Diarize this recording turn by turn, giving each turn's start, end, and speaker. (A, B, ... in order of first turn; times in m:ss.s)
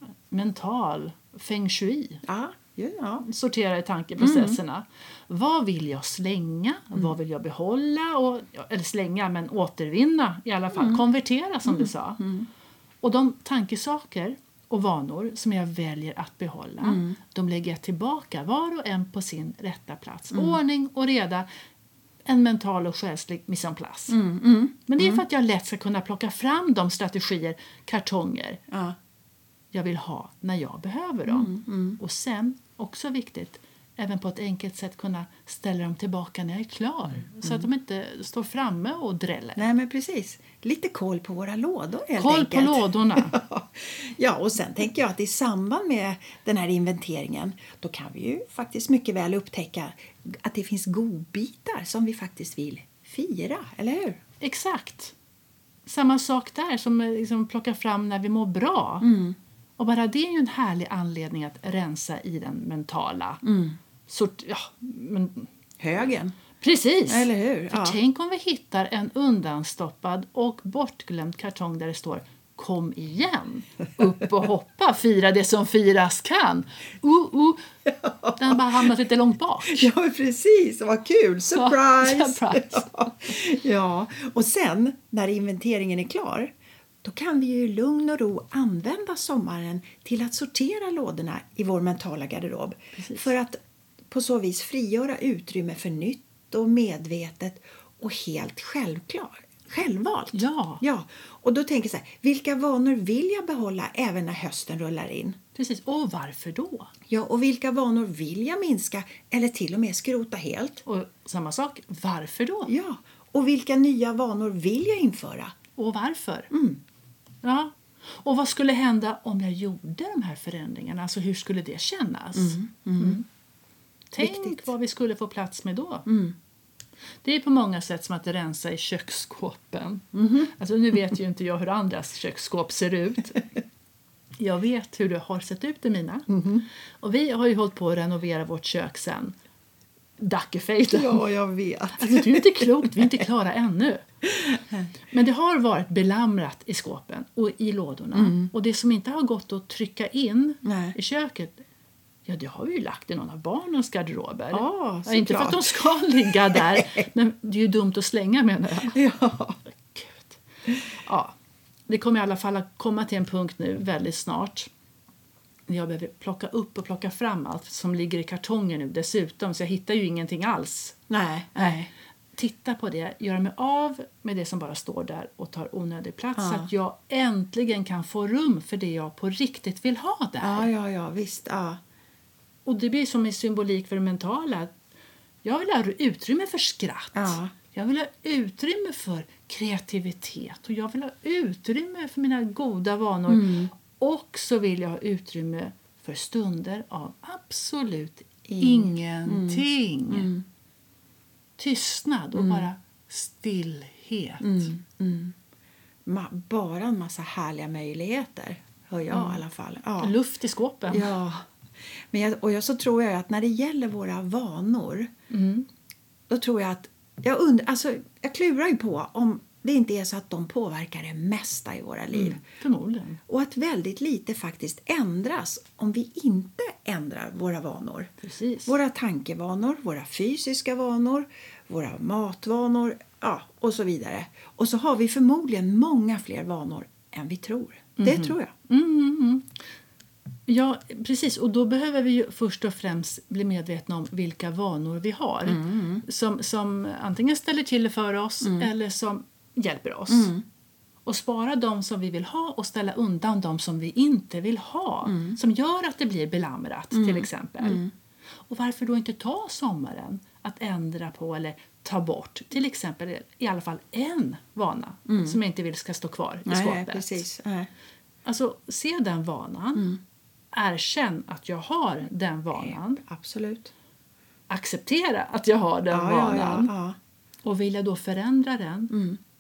0:00.3-0:02.2 A
0:02.2-0:03.2 B
0:03.2-0:12.2 A
0:04.2-0:04.6 B
0:10.7-0:11.0 B
0:11.6-0:12.5 B
0:13.0-0:21.5 A
0:16.8-0:17.2 B
0:20.3-0:20.6 B
0:22.3-0:24.2 A
0:24.1-0:25.2 B
0:24.9-0:28.6 A
0:28.7-0:29.0 B
0:29.7-0:39.7 A
0:31.3-0:32.0 B
0:39.6-0:54.2 B
0:42.2-0:43.4 A
0:54.4-0:55.1 A
0:55.9-0:59.1 A
0:59.0-0:59.4 B
0:59.8-1:03.4 A
1:03.4-1:03.8 B
1:04.1-1:05.5 A
1:05.8-1:06.4 B
1:06.6-1:17.7 A
1:07.1-1:08.0 B
1:17.9-1:18.9 B
1:18.4-1:19.9 A
1:19.6-1:33.6 B
1:21.5-1:23.1 A
1:33.0-1:33.3 A
1:34.1-1:45.4 B
1:40.3-1:40.8 A
1:45.6-1:46.9 A
1:47.1-1:50.8 B
1:50.8-1:52.7 A
1:52.7-1:55.5 B
1:55.8-1:56.5 A
1:56.5-1:56.8 B
1:57.4-2:03.2 A
2:02.4-2:03.2 B
2:04.1-2:06.1 A
2:04.2-2:04.7 B
2:06.1-2:06.4 B
2:07.2-2:13.5 A
2:10.1-2:10.5 B
2:14.4-2:16.4 A
2:16.3-2:16.6 B
2:17.0-2:19.4 A
2:20.2-2:21.2 A
2:20.9-2:23.1 B
2:22.0-2:24.0 A
2:24.4-2:24.8 B
2:25.1-2:31.6 A
2:28.1-2:28.5 B
2:30.6-2:31.0 B
2:32.3-2:39.0 A
2:34.5-2:37.1 B
2:38.8-2:39.6 B
2:39.8-2:40.4 A
2:41.0-2:41.4 A
2:41.9-2:44.7 A
2:45.7-2:51.0 A
2:51.1-2:51.8 B
2:51.6-3:00.7 A
2:56.4-2:56.7 B
3:00.4-3:01.8 B
3:02.6-3:04.7 A
3:05.4-3:20.3 A
3:07.2-3:07.6 B
3:13.3-3:13.7 B
3:18.5-3:20.4 B
3:21.6-3:24.7 A
3:22.4-3:22.7 B
3:24.4-3:25.4 B
3:26.1-3:30.1 B
3:29.1-3:29.4 A
3:30.0-3:31.2 A
3:30.9-3:31.4 B
3:32.1-3:35.1 B
3:35.3-3:35.7 A
3:36.3-3:42.4 B
3:42.1-3:43.2 A
3:43.3-3:48.1 B
3:48.2-3:48.8 A
3:48.7-3:58.5 B
3:58.0-3:59.6 A
4:00.5-4:10.3 A
4:05.5-4:06.0 B
4:10.1-4:10.4 B
4:11.1-4:17.8 A
4:15.1-4:15.4 B
4:16.9-4:17.9 B
4:18.5-4:27.3 A
4:25.1-4:25.4 B
4:26.5-4:27.7 B
4:28.2-4:29.9 A
4:30.5-4:33.0 A
4:32.6-4:33.7 B
4:34.5-4:36.7 A
4:35.9-4:37.0 B
4:37.4-4:38.9 A
4:38.9-4:39.2 B